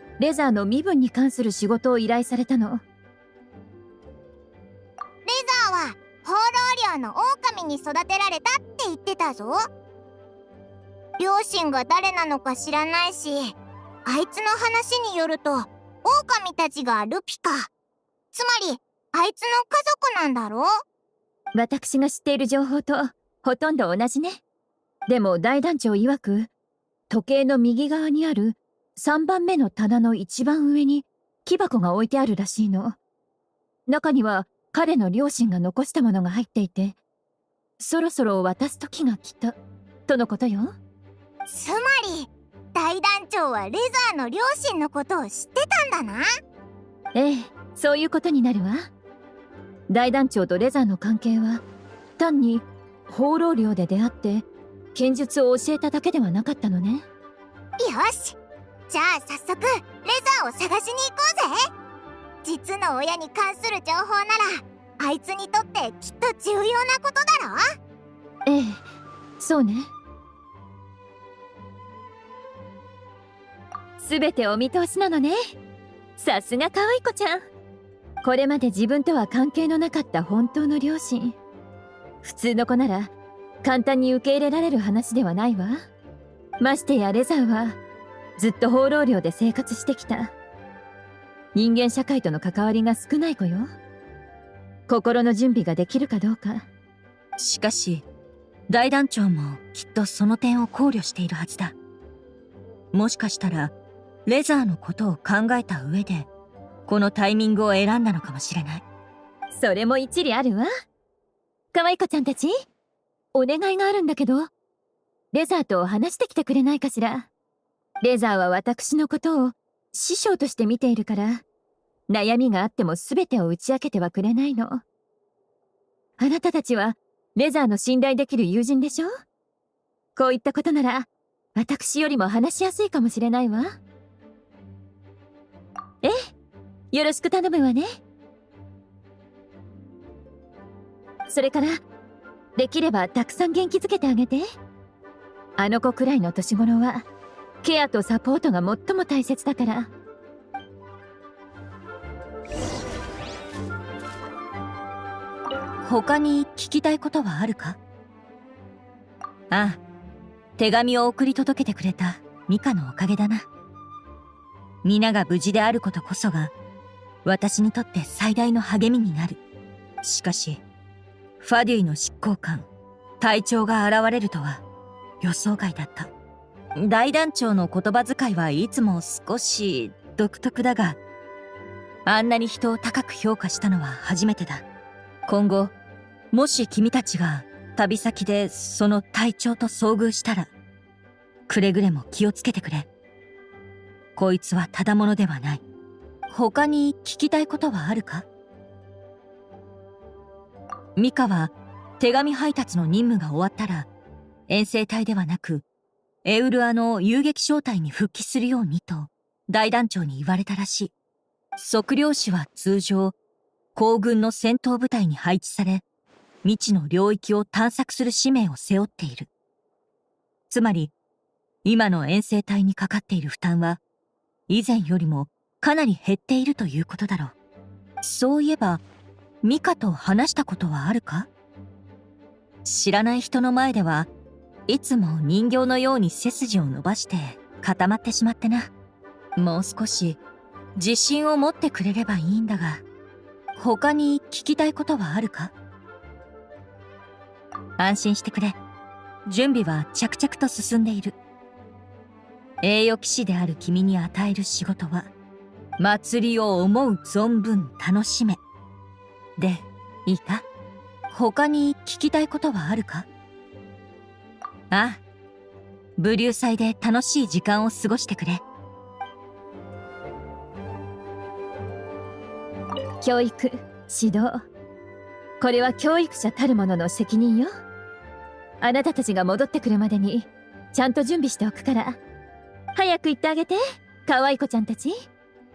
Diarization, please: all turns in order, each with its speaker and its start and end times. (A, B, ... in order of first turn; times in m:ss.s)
0:00.2-0:02.8 A
0:05.2-0:09.7 B
0:11.2-0:13.5 B
0:14.0-0:17.7 B
0:18.3-0:20.7 B
0:21.5-0:24.4 A
0:25.1-0:26.5 A
0:27.1-0:33.0 A
0:33.9-0:37.0 A
0:37.8-0:39.6 A
0:40.1-0:40.8 A
0:41.5-0:46.3 B
0:47.1-0:48.9 A
0:49.9-0:51.6 A
0:52.2-0:57.1 A
0:57.8-0:58.4 B
0:58.9-1:01.7 B
1:02.4-1:07.6 B
1:08.4-1:08.8 A
1:09.4-1:09.9 A
1:14.0-1:15.5 A
1:16.2-1:17.4 A
1:18.2-1:21.4 A
1:22.2-1:25.8 A
1:26.6-1:27.8 A
1:28.4-1:30.3 A
1:31.5-1:33.7 A
1:34.9-1:36.7 A
1:37.4-1:38.0 C
1:38.7-1:41.7 C
1:42.9-1:43.7 C
1:44.2-1:46.3 C
1:46.9-1:48.8 C
1:49.5-1:50.7 A
1:51.7-1:52.6 A
1:53.3-1:54.5 A
1:55.3-1:57.3 A
1:58.0-2:01.4 A
2:02.1-2:04.8 A
2:06.2-2:09.1 A
2:10.2-2:13.8 A
2:16.9-2:18.0 A
2:21.3-2:21.8 A
2:22.6-2:24.5 A
2:25.6-2:27.1 A
2:27.6-2:29.9 A
2:35.8-2:37.8 C
2:39.5-2:39.8 C
2:40.6-2:43.4 C
2:44.8-2:46.5 C
2:47.2-2:49.4 C
2:50.0-2:50.6 C
2:51.4-2:52.7 C
2:53.2-2:54.6 C
2:55.2-2:56.1 C
2:56.8-3:01.0 C
3:02.0-3:04.6 C
3:05.3-3:05.7 C
3:06.3-3:10.5 C
3:11.5-3:12.9 C
3:14.2-3:15.6 C
3:16.3-3:18.2 C
3:21.0-3:23.9 C
3:24.5-3:25.6 C
3:26.2-3:30.9 C
3:31.6-3:33.1 C
3:33.7-3:35.8 C
3:36.4-3:39.3 C
3:40.5-3:40.9 C
3:41.6-3:43.8 C
3:44.5-3:47.3 C
3:48.0-3:48.8 C
3:49.4-3:51.3 C
3:52.6-3:54.1 C
3:54.7-3:58.7 C
3:59.4-4:00.2 C
4:00.8-4:02.8 C
4:03.6-4:05.5 C
4:07.8-4:08.6 C
4:09.2-4:11.2 C
4:12.6-4:15.1 C
4:15.8-4:18.4 C
4:19.4-4:20.4 C
4:21.1-4:23.1 C
4:24.7-4:25.0 C
4:26.0-4:28.4 C
4:33.0-4:34.4 A
4:35.4-4:37.5 A
4:38.6-4:42.0 A
4:42.8-4:45.1 A